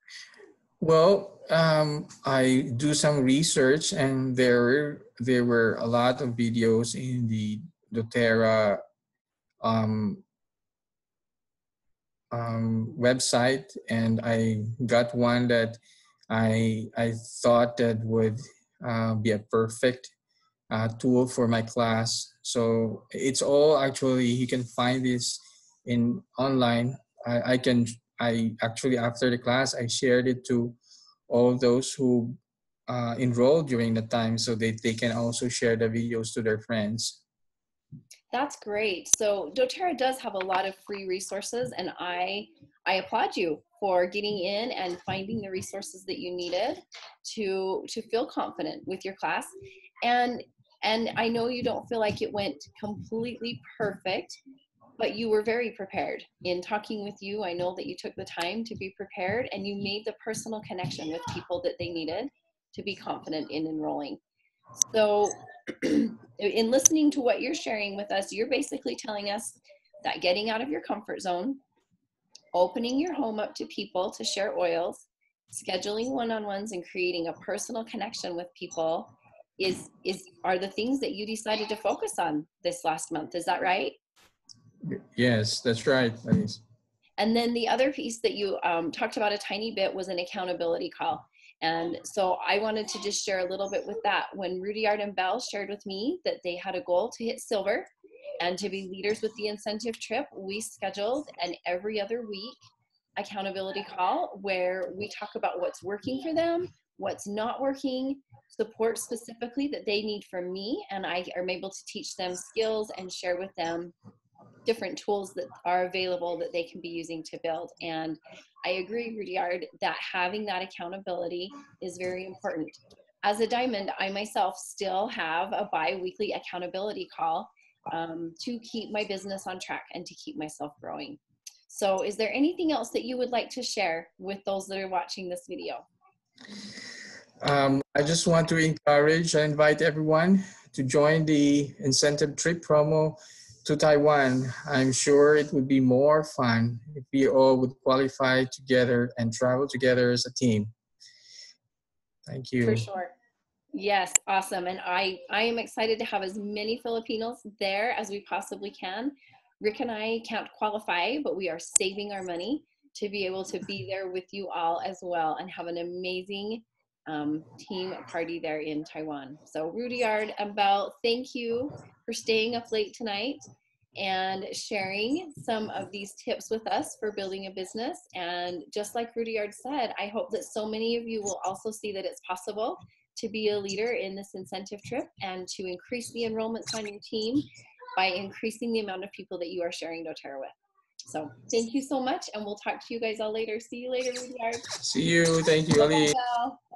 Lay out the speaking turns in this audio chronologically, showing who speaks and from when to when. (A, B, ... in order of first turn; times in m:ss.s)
0:00.8-0:08.8 A
0:09.6-0:10.2 A
0:12.3-0:20.1 A
0:20.7-0:30.8 A
0:31.3-0:32.4 A
0:32.9-0:37.2 A
0:38.3-0:54.4 B
0:55.0-1:04.2 B
1:04.8-1:11.6 B
1:12.5-1:24.0 B
1:24.8-1:26.6 A
1:27.2-1:37.9 B
1:38.4-1:42.6 B
1:43.2-1:53.9 B
1:54.6-2:15.9 B
2:17.4-2:30.7 A
2:32.3-2:32.8 A
2:32.6-2:33.1 B
2:33.7-2:53.4 B
2:54.0-3:10.5 B
3:11.1-3:14.7 B
3:14.8-3:16.2 A
3:15.7-3:16.6 B